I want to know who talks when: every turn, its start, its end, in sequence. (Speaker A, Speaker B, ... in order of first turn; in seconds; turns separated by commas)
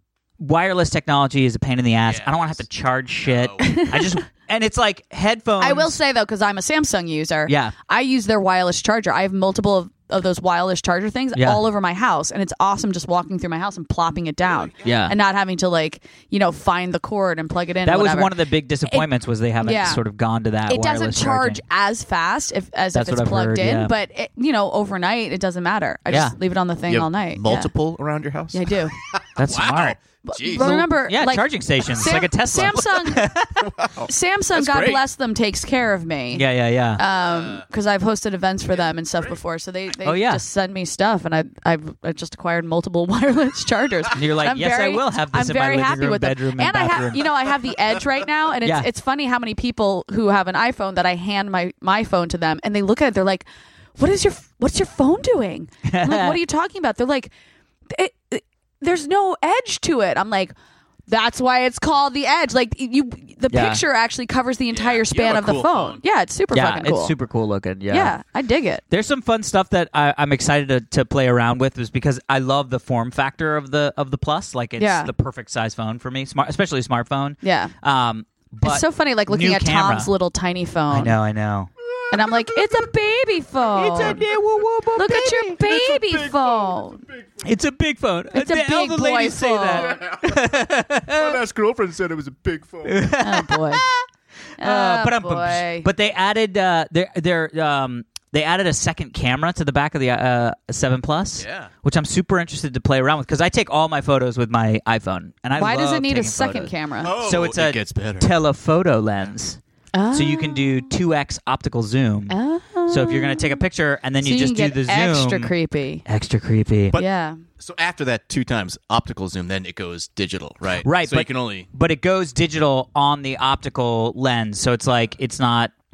Speaker A: 0.4-6.0, Speaker B: 2.0-2.6, Speaker B: 3.2-3.8, Speaker C: 3.6-4.2, Speaker C: 5.6-19.1, Speaker A: 7.5-7.7, Speaker A: 11.3-11.6, Speaker A: 14.8-15.1, Speaker A: 17.8-21.6, Speaker C: 19.6-20.0, Speaker C: 20.7-27.7, Speaker A: 22.9-23.9, Speaker A: 26.1-26.3, Speaker B: 26.9-30.8, Speaker C: 28.5-28.9, Speaker A: 29.4-30.0, Speaker C: 30.2-33.3, Speaker A: 30.5-33.7, Speaker B: 33.7-35.0, Speaker C: 34.0-36.4, Speaker A: 36.3-37.0, Speaker C: 37.0-53.4, Speaker B: 37.2-37.6, Speaker A: 40.0-40.4, Speaker A: 44.1-47.2, Speaker C: 54.0-57.3, Speaker A: 55.8-56.4, Speaker C: 57.9-60.5, Speaker C: 61.1-67.1, Speaker A: 63.5-63.8, Speaker B: 64.7-66.0, Speaker A: 66.5-68.1, Speaker C: 67.9-68.8, Speaker A: 68.9-80.1, Speaker C: 74.8-75.1, Speaker C: 77.4-77.7, Speaker C: 78.6-81.1, Speaker A: 80.9-81.7, Speaker B: 81.9-82.8, Speaker C: 82.1-84.2, Speaker A: 83.7-85.7, Speaker C: 85.0-87.0, Speaker B: 85.6-87.3, Speaker A: 87.4-91.4, Speaker C: 88.3-90.0, Speaker B: 89.7-90.5, Speaker B: 91.1-93.0, Speaker A: 92.8-94.0, Speaker C: 93.2-93.8, Speaker C: 94.6-95.9, Speaker A: 94.6-109.6, Speaker B: 101.4-101.7, Speaker C: 105.5-107.1, Speaker B: 107.0-108.3, Speaker C: 109.9-110.8, Speaker A: 110.1-112.3, Speaker C: 112.3-113.6, Speaker A: 112.9-115.5, Speaker C: 114.2-116.0, Speaker A: 116.0-117.0, Speaker C: 116.9-117.4, Speaker B: 117.6-121.7, Speaker A: 120.8-125.7